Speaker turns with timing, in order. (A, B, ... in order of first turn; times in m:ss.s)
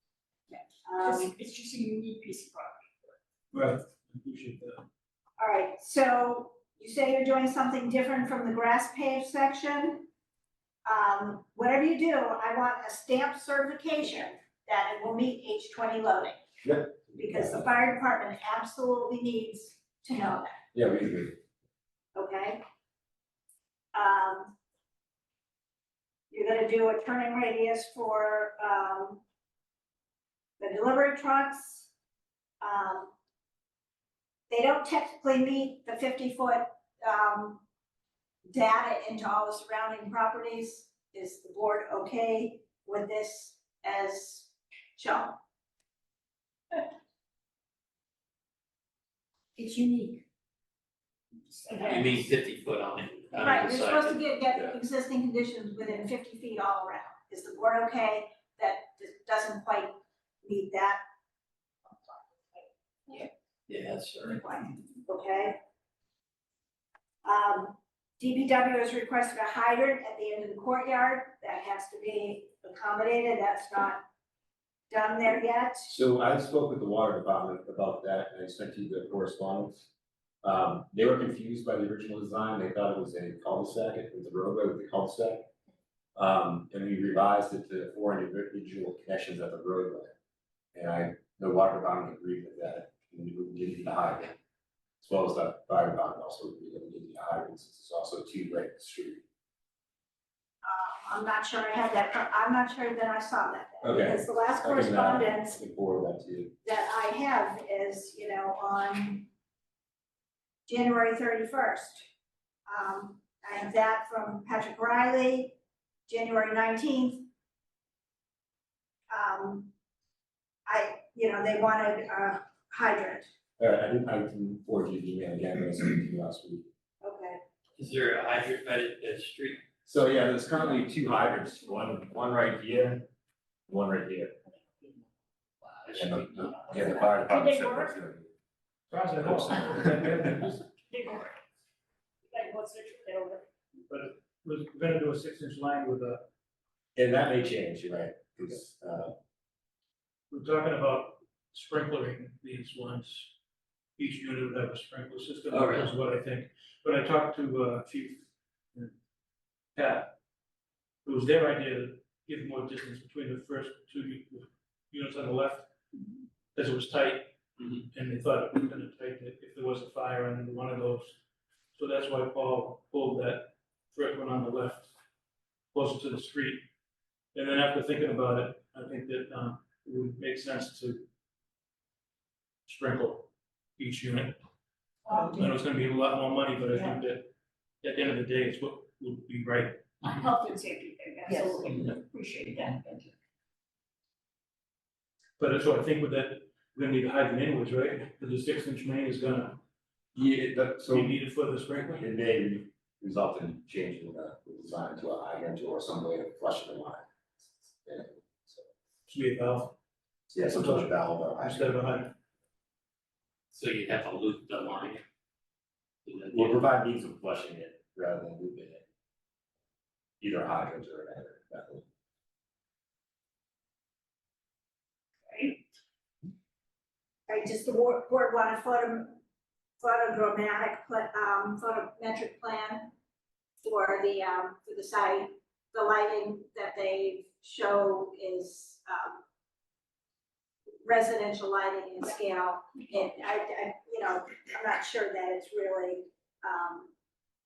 0:00.5-0:01.3 A
0:01.0-0:03.1 B
0:03.5-0:04.8 C
0:05.4-0:10.1 A
0:10.8-0:16.4 A
0:16.6-0:17.6 D
0:17.2-0:20.6 A
0:20.7-0:21.4 D
0:22.1-0:22.6 A
0:23.9-0:24.5 A
0:26.3-0:29.2 A
0:30.6-0:31.9 A
0:32.6-0:33.1 A
0:34.5-0:37.6 A
0:38.5-0:45.4 A
0:49.6-0:50.1 B
0:51.4-0:52.2 B
0:51.8-0:54.2 E
0:53.4-1:01.0 A
1:03.7-1:04.5 E
1:04.3-1:05.6 A
1:07.2-1:14.0 A
1:14.9-1:15.9 A
1:15.9-1:19.9 D
1:20.4-1:25.5 D
1:26.2-1:30.1 D
1:30.7-1:34.3 D
1:35.0-1:39.2 D
1:40.6-1:45.6 A
1:43.8-1:46.5 D
1:46.6-1:49.3 A
1:50.7-1:52.0 A
1:52.7-1:57.3 A
1:59.1-1:59.7 A
2:00.6-2:03.3 A
2:03.6-2:06.6 D
2:07.0-2:07.4 A
2:07.8-2:09.6 E
2:09.8-2:13.1 D
2:13.7-2:14.3 D
2:15.6-2:16.9 E
2:15.9-2:18.3 D
2:16.7-2:18.0 B
2:18.9-2:20.4 C
2:19.3-2:20.3 D
2:20.3-2:21.4 B
2:22.3-2:23.4 B
2:23.9-2:26.2 C
2:27.0-2:29.1 D
2:30.3-2:33.3 C
2:34.0-2:38.9 C
2:35.5-2:36.0 E
2:39.8-2:40.1 C
2:41.0-2:45.7 C
2:46.5-2:51.2 C
2:51.8-2:54.9 C
2:55.7-2:56.6 C
2:57.3-3:01.0 C
3:02.6-3:04.4 C
3:05.0-3:05.5 B
3:05.1-3:07.3 C
3:07.8-3:10.1 C
3:10.0-3:13.1 B
3:15.4-3:19.6 C
3:20.1-3:21.2 D
3:20.9-3:22.1 C
3:21.9-3:27.0 D
3:27.8-3:28.6 D
3:29.1-3:29.7 C
3:30.3-3:32.0 D
3:30.4-3:32.1 C
3:33.5-3:35.0 E
3:36.0-3:36.6 E
3:36.3-3:38.8 D
3:40.2-3:41.8 D
3:45.3-3:45.6 B
3:47.3-3:49.2 A
3:49.8-3:52.9 A
3:53.6-3:59.2 A
4:00.8-4:06.9 A